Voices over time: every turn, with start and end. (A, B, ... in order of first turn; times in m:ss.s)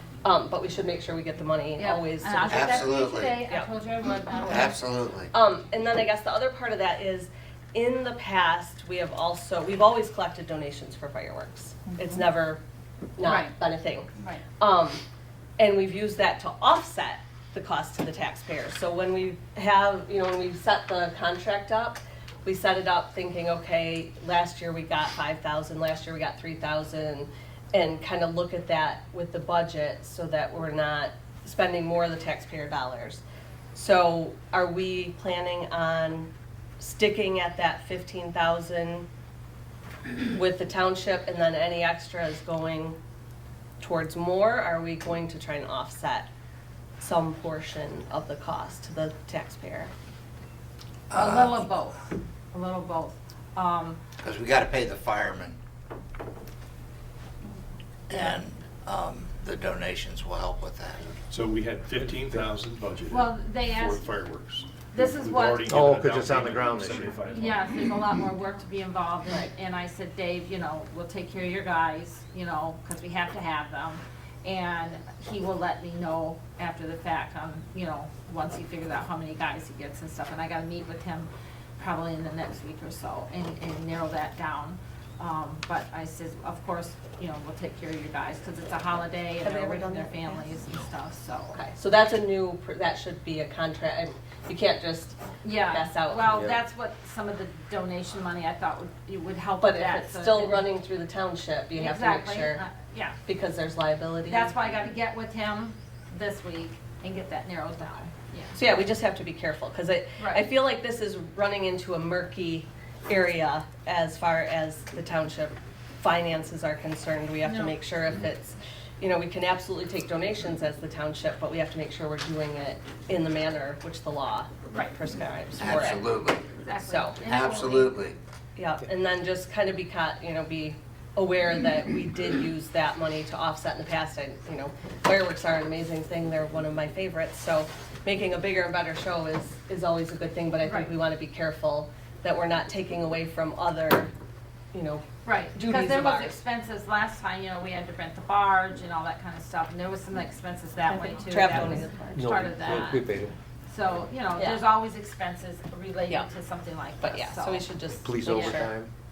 0:00.2-0:02.9 A
0:01.8-0:04.8 B
0:02.5-0:03.4 C
0:04.4-0:05.3 C
0:05.3-0:12.6 A
0:11.9-0:12.2 B
0:13.2-0:15.0 A
0:13.2-0:13.6 B
0:15.6-0:33.2 A
0:33.7-0:39.1 A
0:40.3-0:43.0 A
0:43.8-0:46.3 A
0:47.0-0:49.9 A
0:51.1-0:51.7 C
0:51.1-0:54.0 B
0:54.2-0:55.6 C
0:58.1-1:01.2 C
1:01.3-1:07.6 D
1:03.1-1:04.0 B
1:04.9-1:06.0 B
1:05.7-1:07.1 E
1:07.3-1:31.6 B
1:29.4-1:30.4 A
1:31.5-1:36.2 A
1:35.4-1:40.7 B
1:36.3-1:36.6 E
1:39.6-1:42.6 A
1:41.7-1:43.2 B
1:43.3-1:44.5 A
1:44.3-1:48.6 B
1:48.6-2:06.0 A
1:50.2-1:50.4 B
1:57.4-1:57.8 B
2:05.6-2:06.5 C
2:05.7-2:06.0 B
2:06.6-2:08.0 B
2:06.8-2:07.2 A
2:07.2-2:08.2 C
2:08.6-2:24.1 A
2:20.6-2:20.9 B
2:24.7-2:26.4 A
2:25.2-2:33.0 B
2:30.9-2:32.2 A
2:31.6-2:33.4 E
2:33.7-2:37.7 B
2:34.4-2:34.6 A
2:37.0-2:38.7 A
2:38.0-2:38.9 E
2:38.2-2:38.6 B